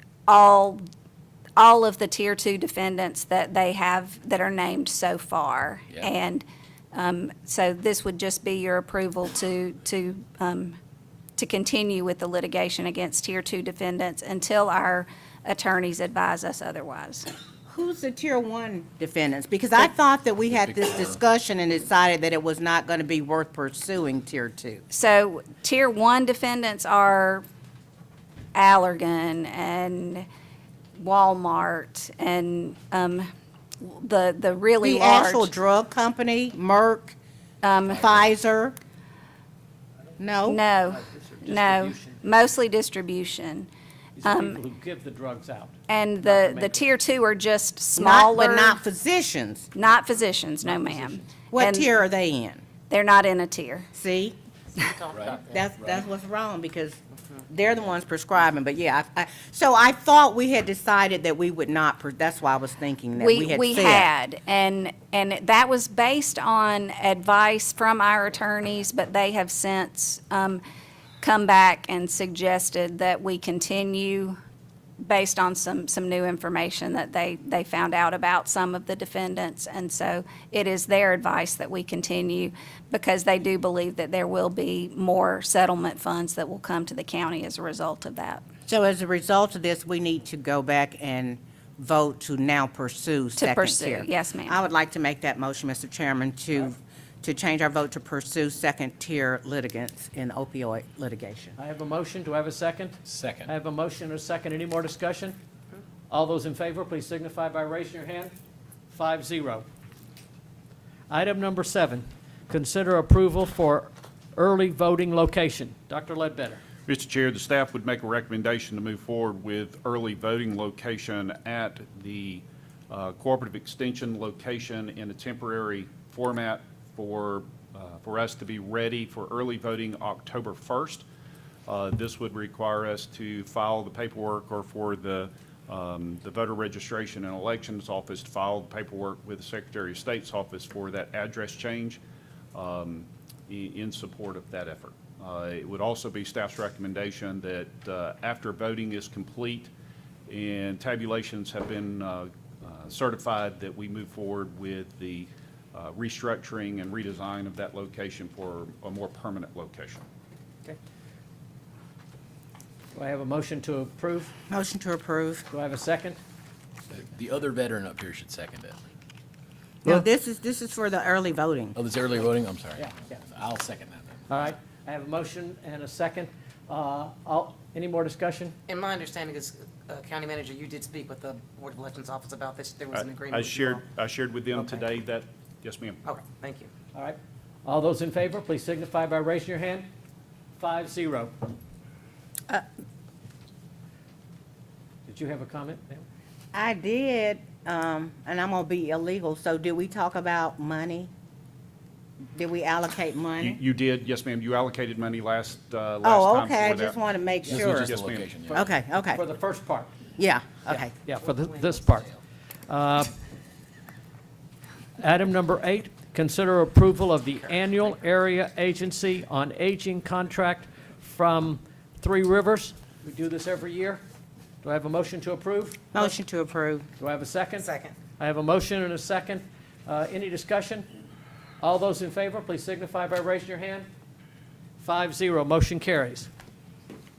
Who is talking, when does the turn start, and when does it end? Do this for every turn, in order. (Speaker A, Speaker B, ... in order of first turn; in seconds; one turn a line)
Speaker A: 0.3-0.8
Speaker A: 1.6-10.8
Speaker A: 11.4-17.3
Speaker B: 17.7-24.8
Speaker C: 20.6-21.2
Speaker A: 24.9-27.4
Speaker A: 28.5-30.3
Speaker A: 30.9-33.3
Speaker A: 33.8-35.5
Speaker B: 34.8-37.1
Speaker A: 37.6-38.1
Speaker B: 37.9-38.8
Speaker B: 40.2-40.6
Speaker A: 40.5-43.7
Speaker D: 40.9-42.2
Speaker D: 44.1-46.8
Speaker A: 44.2-44.6
Speaker A: 45.9-48.8
Speaker B: 48.0-49.7
Speaker A: 49.7-51.9
Speaker D: 50.6-51.2
Speaker B: 51.5-52.6
Speaker A: 52.9-53.9
Speaker B: 53.9-54.4
Speaker E: 54.8-55.4
Speaker C: 55.1-56.0
Speaker B: 55.4-64.1
Speaker A: 63.2-70.6
Speaker A: 71.2-74.4
Speaker A: 75.0-88.4
Speaker B: 88.7-101.5
Speaker A: 93.4-94.6
Speaker D: 101.6-105.4
Speaker C: 103.0-103.5
Speaker D: 106.1-108.3
Speaker D: 108.9-109.7
Speaker D: 111.1-116.6
Speaker F: 116.9-131.1
Speaker F: 131.7-142.0
Speaker F: 142.5-149.7
Speaker F: 150.3-160.0
Speaker D: 162.9-164.3
Speaker B: 164.5-165.4
Speaker D: 165.5-166.2
Speaker C: 166.9-168.8
Speaker B: 169.8-171.8
Speaker C: 171.8-174.5
Speaker D: 172.8-173.1
Speaker D: 174.3-178.6
Speaker E: 178.7-183.8
Speaker F: 182.9-186.0
Speaker E: 186.0-186.7
Speaker D: 186.9-189.9
Speaker D: 190.6-191.3
Speaker D: 195.1-196.0
Speaker B: 196.5-201.1
Speaker B: 202.3-203.6
Speaker F: 203.4-207.0
Speaker B: 206.0-207.9
Speaker C: 207.4-208.7
Speaker F: 207.6-208.3
Speaker D: 208.4-209.9
Speaker B: 208.5-209.2
Speaker B: 210.2-210.9
Speaker D: 210.7-212.2
Speaker E: 211.2-212.0
Speaker D: 212.7-213.1
Speaker D: 215.0-224.0
Speaker D: 224.6-226.1
Speaker B: 225.9-226.9
Speaker D: 227.0-230.9
Speaker E: 227.6-227.9
Speaker D: 231.6-233.9
Speaker D: 234.8-236.3